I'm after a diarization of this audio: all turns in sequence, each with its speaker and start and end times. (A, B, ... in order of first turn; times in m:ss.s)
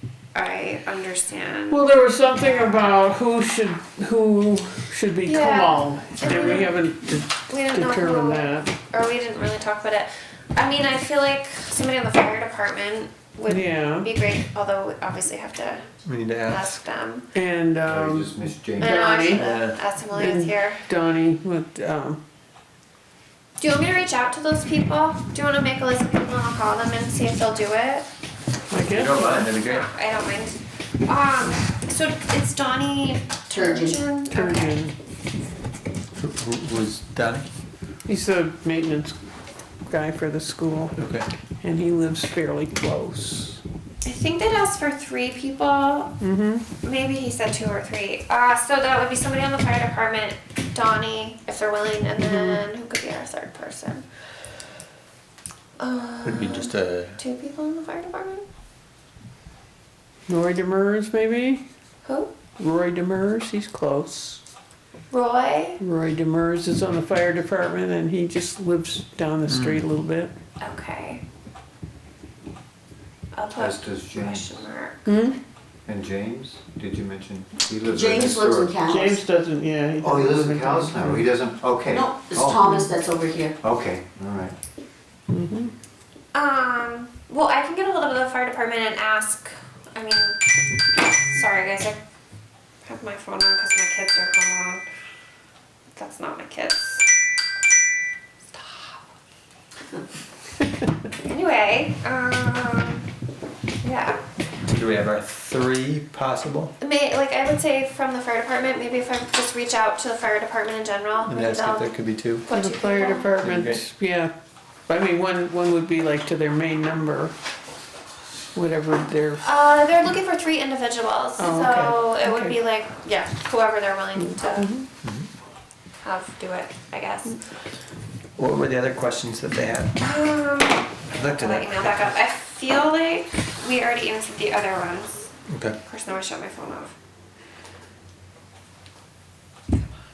0:00.4-0:02.9 A
0:01.7-0:08.7 B
0:05.3-0:06.8 A
0:06.2-0:06.7 C
0:07.5-0:15.9 A
0:13.5-0:14.1 B
0:16.0-0:16.6 C
0:16.5-0:17.3 A
0:17.3-0:19.4 B
0:17.9-0:18.9 D
0:18.8-0:20.8 A
0:19.3-0:19.8 C
0:20.1-0:22.2 B
0:23.6-0:28.1 A
0:28.7-0:29.1 B
0:28.9-0:29.9 C
0:29.1-0:34.8 A
0:33.5-0:34.0 E
0:34.3-0:34.9 B
0:36.2-0:37.5 C
0:38.1-0:39.2 B
0:39.9-0:41.0 B
0:41.0-0:41.3 C
0:41.6-0:43.6 B
0:44.0-0:46.1 A
0:46.2-0:46.6 B
0:46.8-0:54.0 A
0:52.2-0:52.6 B
0:55.8-0:58.4 A
0:56.2-0:57.2 C
1:00.3-1:01.6 B
1:02.0-1:02.3 A
1:02.6-1:04.4 B
1:05.1-1:05.8 A
1:05.8-1:10.3 B
1:09.5-1:09.8 C
1:10.6-1:11.2 A
1:13.3-1:15.0 A
1:13.6-1:14.6 D
1:15.0-1:15.4 B
1:15.9-1:18.8 D
1:17.9-1:19.2 E
1:18.9-1:21.3 B
1:20.0-1:22.7 D
1:21.9-1:23.6 E
1:23.6-1:24.6 D
1:25.3-1:25.7 B
1:26.3-1:30.4 A
1:31.1-1:32.0 A
1:32.8-1:34.8 A
1:36.0-1:37.1 A
1:38.5-1:39.0 A
1:41.2-1:43.1 A
1:43.8-1:44.2 A
1:44.7-1:46.7 C
1:46.8-1:51.9 A
1:51.3-1:52.5 C
1:52.5-1:53.3 A
1:52.5-1:54.3 B
1:53.4-1:53.8 C
1:54.9-1:57.3 B
1:58.5-1:59.4 B
1:59.4-2:04.7 A
2:01.4-2:02.6 B
2:04.3-2:04.9 B
2:06.0-2:07.4 A
2:08.4-2:10.0 C
2:10.0-2:15.3 A
2:11.1-2:12.0 C
2:15.5-2:15.8 C
2:15.9-2:16.9 A